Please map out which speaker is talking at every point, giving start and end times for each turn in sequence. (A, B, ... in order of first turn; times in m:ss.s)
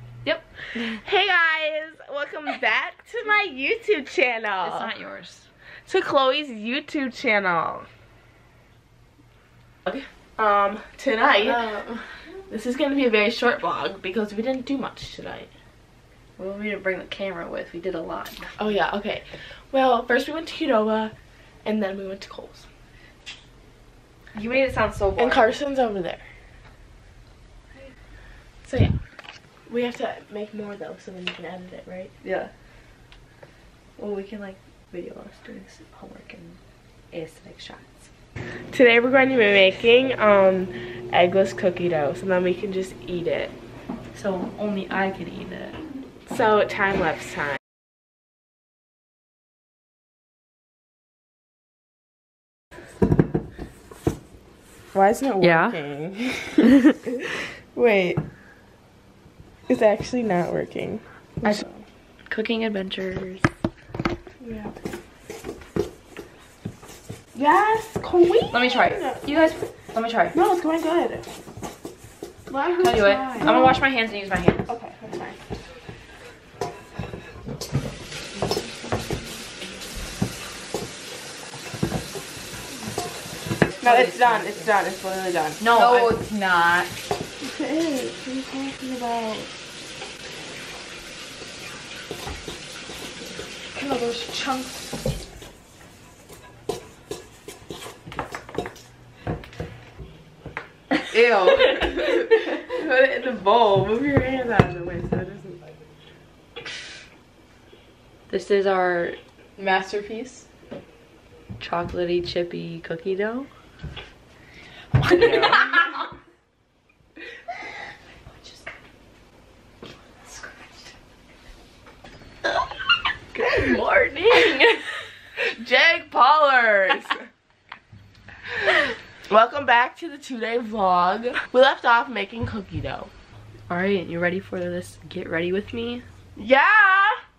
0:00.2-0:01.0 A
0:00.9-0:04.9 B
0:04.6-0:05.5 A
0:05.8-0:07.9 B
0:10.4-0:11.6 B
0:11.4-0:12.1 A
0:12.5-0:15.5 B
0:16.4-0:18.5 A
0:18.6-0:22.6 B
0:24.3-0:25.5 A
0:25.2-0:26.3 B
0:28.6-0:29.0 B
0:29.7-0:32.1 B
0:32.2-0:32.5 A
0:34.0-0:36.6 A
0:37.1-0:38.0 A
0:38.7-0:43.5 B
0:44.1-0:45.8 A
0:46.2-0:47.6 B
0:54.9-0:58.2 B
0:55.4-0:55.8 A
0:59.7-1:01.8 B
1:02.3-1:03.4 A
1:04.4-1:04.8 B
1:07.3-1:09.2 B
1:08.5-1:10.3 A
1:10.3-1:11.2 B
1:12.5-1:13.8 B
1:12.8-1:14.7 A
1:14.7-1:15.4 B
1:23.8-1:24.7 A
1:23.8-1:26.0 B
1:25.6-1:26.3 A
1:25.7-1:26.9 C
1:27.4-1:29.5 B
1:33.8-1:34.7 C
1:41.1-1:45.7 B
1:41.2-1:41.8 C
1:48.3-1:49.2 A
1:49.6-1:50.4 C
1:51.6-1:53.5 A
1:55.1-1:55.9 B
1:55.2-1:55.8 A
1:55.2-1:55.6 C
2:00.2-2:00.7 A
2:03.3-2:04.8 B
2:05.4-2:07.2 B
2:09.3-2:13.1 B
2:13.7-2:16.0 A
2:16.4-2:17.2 B